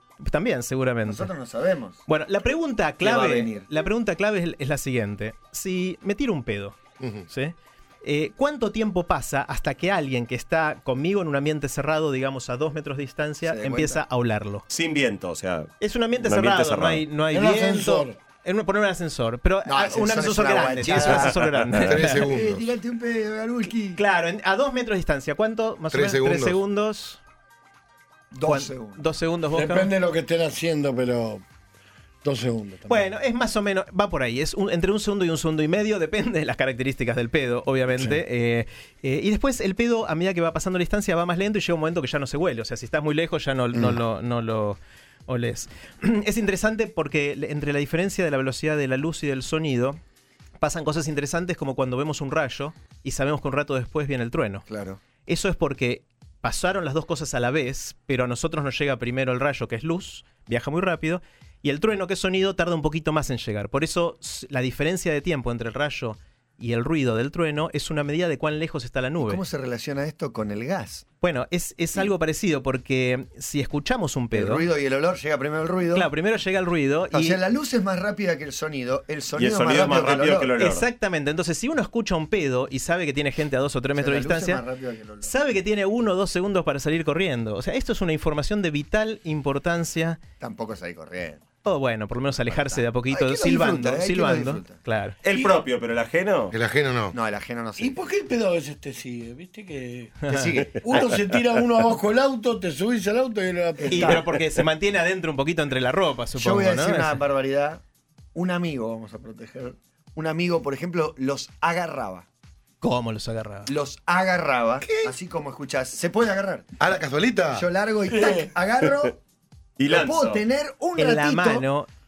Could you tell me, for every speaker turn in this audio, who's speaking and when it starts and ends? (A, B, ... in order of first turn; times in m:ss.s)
0:00.2-0:01.3 A
0:01.0-0:02.0 B
0:02.1-0:06.8 A
0:03.0-0:03.7 B
0:07.0-0:07.3 C
0:07.3-0:14.6 A
0:13.4-0:14.0 B
0:14.7-0:17.0 D
0:15.8-0:22.2 A
0:17.3-0:18.2 E
0:19.6-0:21.4 B
0:21.7-0:22.7 C
0:22.0-0:24.0 B
0:23.9-0:27.2 A
0:25.9-0:26.6 C
0:28.3-0:29.0 B
0:28.4-0:29.9 A
0:29.5-0:31.4 E
0:32.2-0:33.1 E
0:32.9-0:50.0 A
0:50.6-0:54.6 A
0:54.7-0:55.0 B
0:55.2-1:09.4 A
1:09.2-1:11.0 B
1:11.2-1:14.6 A
1:14.3-1:16.1 B
1:15.9-1:17.4 A
1:17.1-1:20.5 B
1:19.4-1:20.8 D
1:20.6-1:24.6 A
1:24.0-1:25.3 B
1:25.2-1:30.2 A
1:30.4-1:31.4 B
1:31.6-1:35.2 A
1:32.5-1:34.8 B
1:35.2-1:36.5 D
1:36.5-1:37.1 C
1:37.1-1:38.0 B
1:37.8-1:40.2 E
1:40.3-1:40.6 A
1:40.3-1:41.1 B
1:40.8-1:44.2 E
1:43.8-1:44.2 B
1:43.9-1:47.2 A
1:46.4-1:47.8 B
1:48.3-1:52.2 B
1:52.8-1:53.7 A
1:53.7-1:56.7 B
1:56.8-1:57.7 C
1:57.5-1:59.2 B
1:58.2-1:58.5 E
1:59.8-2:00.4 D
1:59.9-2:01.7 B
2:01.0-2:01.9 A